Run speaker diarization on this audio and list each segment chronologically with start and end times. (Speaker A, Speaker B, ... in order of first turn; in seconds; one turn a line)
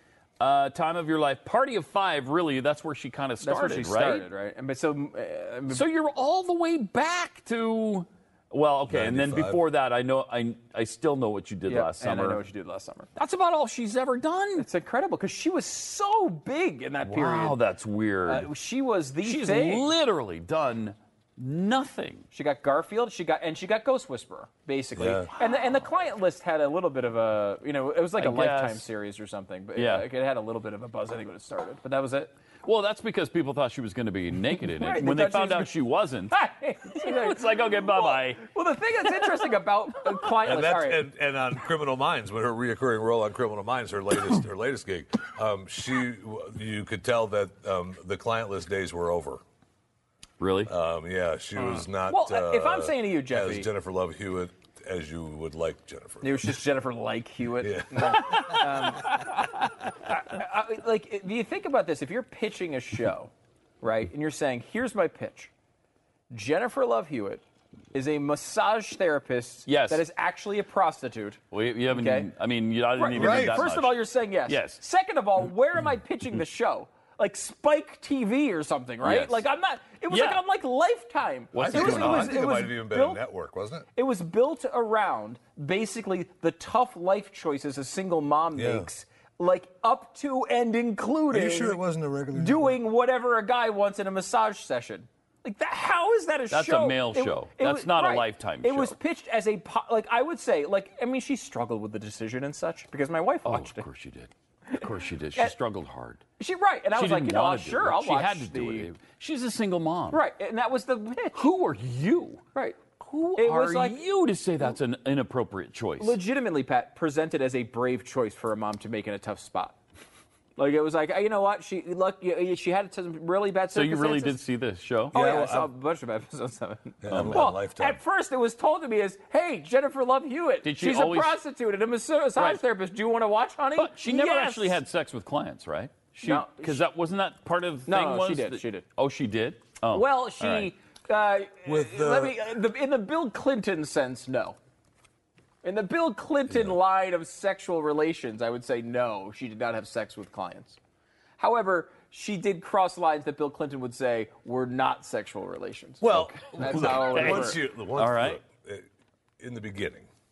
Speaker A: 0.4-4.3
Speaker B: 3.4-5.8
Speaker A: 5.7-12.4
Speaker C: 8.9-9.6
Speaker B: 11.7-13.1
Speaker A: 13.1-14.7
Speaker B: 14.6-17.6
Speaker A: 17.0-18.5
Speaker B: 18.3-19.9
Speaker A: 19.2-22.2
Speaker B: 22.3-32.3
Speaker C: 25.0-25.3
Speaker A: 28.2-28.8
Speaker A: 29.8-30.1
Speaker A: 32.6-36.3
Speaker B: 34.6-35.8
Speaker B: 36.3-41.0
Speaker A: 36.9-38.4
Speaker C: 40.3-49.4
Speaker A: 50.4-50.7
Speaker C: 50.7-56.4
Speaker B: 51.8-53.7
Speaker B: 56.2-65.5
Speaker C: 57.6-58.7
Speaker B: 66.3-72.3
Speaker A: 69.7-70.0
Speaker A: 71.5-74.8
Speaker B: 72.9-83.2
Speaker C: 73.1-73.6
Speaker A: 79.0-79.5
Speaker A: 80.1-80.4
Speaker A: 81.5-82.3
Speaker C: 81.5-83.8
Speaker B: 83.9-91.8
Speaker C: 88.5-88.9
Speaker C: 91.3-92.8
Speaker B: 92.3-103.8
Speaker A: 96.5-99.0
Speaker A: 103.4-106.2
Speaker B: 106.4-108.9
Speaker A: 106.9-110.2
Speaker B: 110.1-111.5
Speaker A: 111.3-112.4
Speaker B: 112.5-112.8
Speaker A: 113.0-116.2
Speaker B: 113.3-114.0
Speaker B: 116.0-119.8
Speaker B: 120.5-124.4
Speaker A: 123.7-125.2
Speaker B: 125.1-134.8
Speaker C: 125.1-125.7
Speaker C: 127.0-128.0
Speaker A: 127.1-127.5
Speaker A: 130.6-131.4
Speaker A: 132.3-132.6
Speaker A: 133.7-140.7
Speaker B: 136.2-136.8
Speaker B: 137.8-138.8
Speaker B: 139.9-144.6
Speaker C: 141.6-142.3
Speaker B: 145.6-150.8
Speaker C: 146.5-146.7
Speaker B: 151.4-157.6
Speaker C: 156.0-158.8
Speaker A: 156.6-158.4
Speaker C: 159.4-160.1